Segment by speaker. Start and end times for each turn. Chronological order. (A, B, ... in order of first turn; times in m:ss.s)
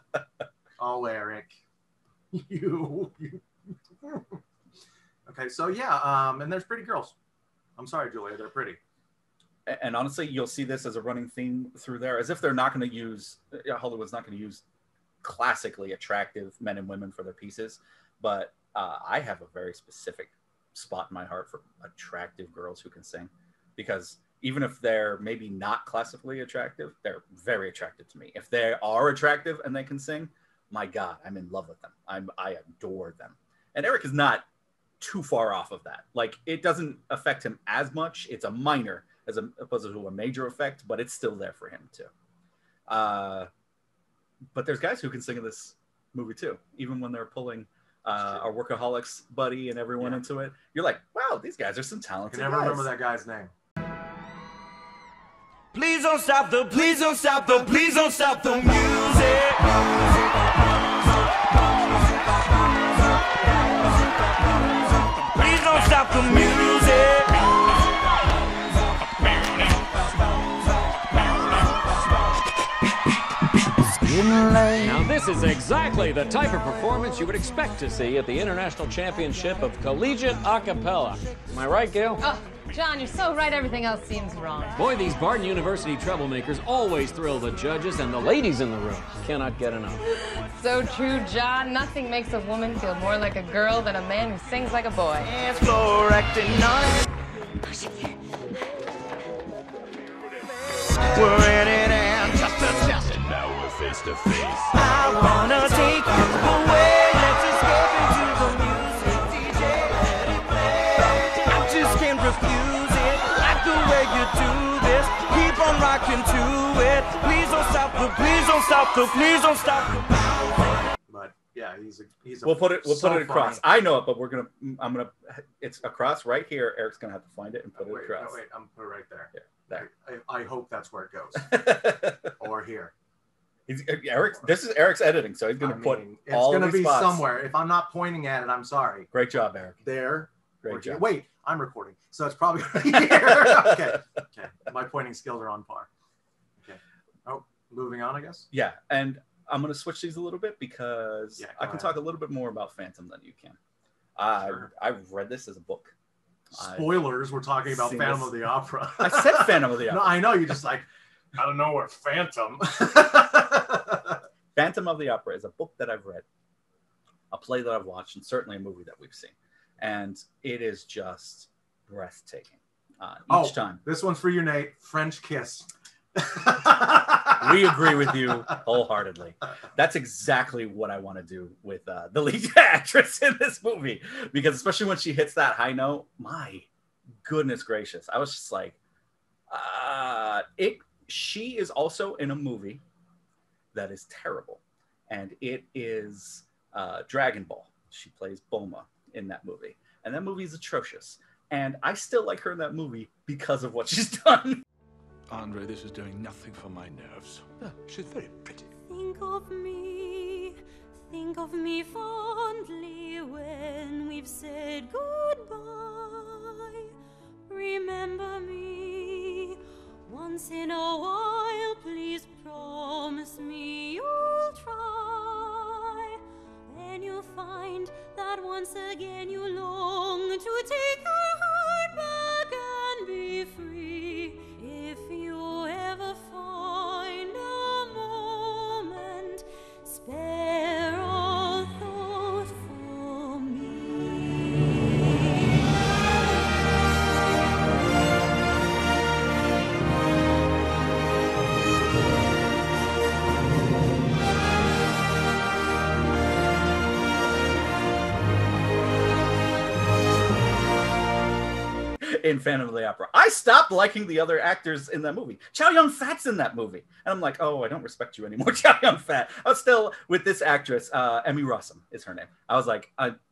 0:00.8-0:01.6 A
0:02.3-0:03.4 A
0:04.0-0:04.4 A
0:05.3-0:07.2 A
0:07.8-0:08.8 A
0:09.7-0:14.6 B
0:15.2-0:34.5 B
0:35.0-0:42.1 B
0:42.9-0:43.5 B
0:44.5-0:52.9 B
0:52.3-0:53.5 A
0:55.7-1:00.3 C
1:05.2-1:07.4 C
1:14.9-1:22.2 D
1:22.2-1:24.8 E
1:24.8-1:29.9 D
1:30.6-1:35.3 E
1:35.2-1:37.1 C
1:41.2-1:43.1 C
1:44.7-2:00.2 C
2:01.1-2:03.6 A
2:02.4-2:08.4 B
2:07.8-2:11.5 A
2:09.4-2:09.8 B
2:11.4-2:12.3 B
2:12.4-2:12.9 A
2:13.7-2:17.3 B
2:15.6-2:19.1 A
2:19.1-2:19.8 B
2:19.8-2:25.9 A
2:20.6-2:21.0 B
2:22.8-2:24.0 B
2:26.6-2:28.5 A
2:28.5-2:33.6 B
2:31.4-2:31.9 A
2:34.2-2:35.9 B
2:36.5-2:37.1 B
2:36.5-2:44.2 A
2:37.7-2:38.4 B
2:39.0-2:40.2 B
2:44.5-2:46.2 B
2:47.3-2:53.8 B
2:53.3-2:58.6 A
2:57.4-3:06.7 B
3:07.2-3:08.8 B
3:09.5-3:12.8 B
3:13.7-3:24.6 B
3:25.3-3:28.7 F
3:28.9-3:36.9 G
3:37.5-4:05.6 G
4:22.0-4:33.2 B